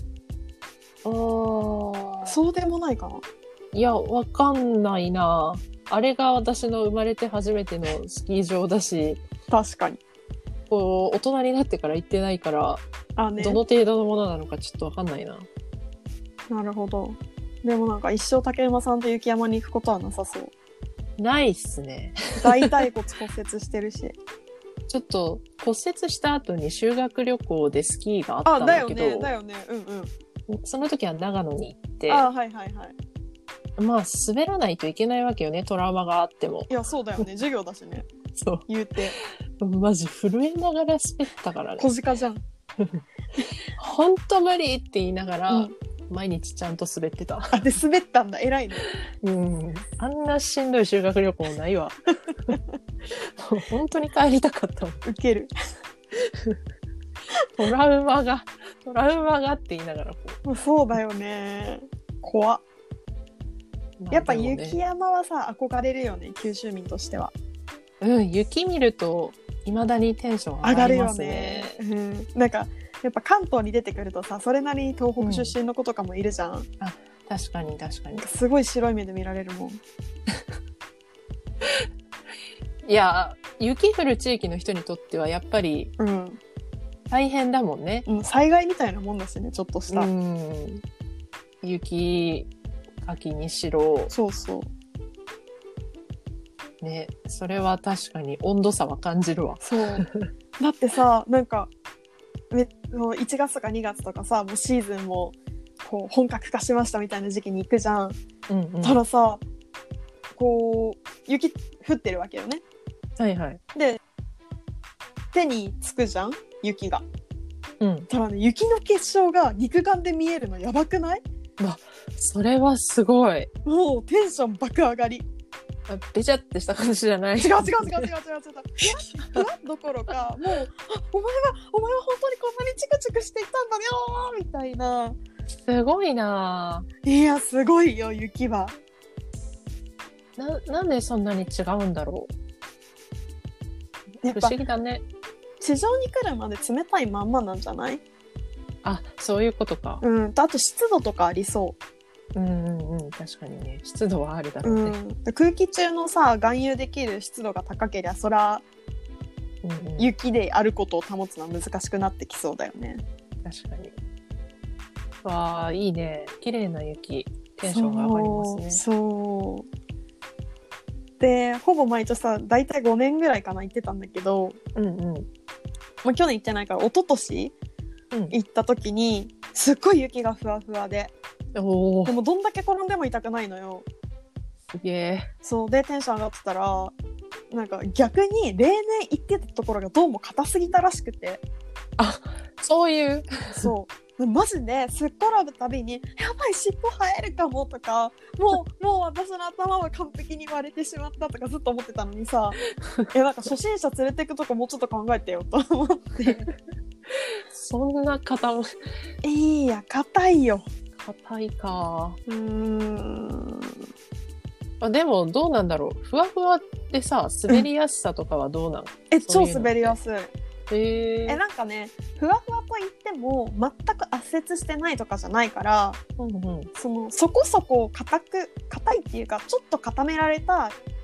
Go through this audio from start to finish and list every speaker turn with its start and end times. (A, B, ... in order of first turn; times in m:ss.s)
0:01.0-0:02.4 A
0:02.3-0:03.2 B
0:03.7-0:09.2 A
0:09.5-0:10.0 B
0:10.7-0:12.8 A
0:13.2-0:13.6 B
0:13.4-0:15.5 A
0:16.5-0:20.5 B
0:21.2-0:22.8 A
0:22.4-0:24.2 B
0:24.9-0:29.3 A
0:28.4-0:30.1 B
0:30.5-0:32.3 A
0:32.1-0:32.9 B
0:33.8-0:37.3 A
0:36.7-0:38.1 B
0:38.4-0:38.6 A
0:38.7-0:39.2 B
0:39.6-0:41.9 A
0:41.8-0:42.4 B
0:43.8-0:47.7 A
0:47.5-0:48.8 B
0:48.9-0:52.6 A
0:53.1-0:55.0 A
0:55.0-0:55.5 B
0:57.5-1:00.4 A
1:00.4-1:02.6 B
1:04.0-1:04.8 A
1:04.1-1:07.3 B
1:08.0-1:11.8 A
1:10.6-1:16.7 B
1:15.2-1:15.6 A
1:16.8-1:18.3 A
1:18.2-1:19.8 B
1:22.8-1:25.9 A
1:26.0-1:26.4 B
1:27.1-1:28.1 A
1:28.1-1:30.1 B
1:29.9-1:30.8 A
1:31.6-1:32.5 A
1:33.0-1:34.1 A
1:34.1-1:34.7 B
1:36.8-1:40.3 A
1:39.6-1:40.0 B
1:40.6-1:41.7 B
1:42.5-1:48.2 B
1:48.5-1:49.0 A
1:48.8-1:49.4 B
1:50.4-1:52.6 B
1:53.2-1:53.6 A
1:53.7-1:54.0 B
1:55.3-1:57.0 B
1:57.8-1:58.1 A
1:58.1-2:01.2 B
2:01.6-2:03.5 A
2:03.6-2:05.2 B
2:05.9-2:08.1 A
2:07.4-2:15.2 B
2:09.1-2:09.4 A
2:15.7-2:16.9 A
2:17.0-2:18.8 B
2:20.4-2:22.3 A
2:24.2-2:25.0 A
2:24.2-2:24.6 B
2:25.6-2:28.0 B
2:28.8-2:30.0 A
2:30.0-2:31.8 B
2:32.4-2:35.0 A
2:34.6-2:38.6 B
2:39.6-2:40.1 A
2:40.0-2:43.0 B
2:43.4-2:44.0 A
2:45.2-2:48.8 A
2:47.6-2:49.7 B
2:51.2-2:54.6 B
2:54.8-2:55.3 A
2:56.0-2:57.5 B
2:58.3-3:01.1 B
3:01.6-3:02.2 A
3:02.1-3:03.9 B
3:04.8-3:05.3 A
3:05.4-3:06.9 B
3:07.5-3:11.4 B
3:12.0-3:13.7 A
3:13.5-3:22.6 B
3:22.8-3:23.1 A
3:23.1-3:26.4 B
3:27.1-3:28.7 A
3:29.2-3:30.6 B
3:31.0-3:32.2 A
3:32.3-3:33.8 B
3:34.8-3:40.0 A
3:39.1-3:40.3 B
3:40.7-3:41.4 A
3:41.3-3:46.0 B
3:46.2-3:46.7 A
3:46.8-3:50.8 B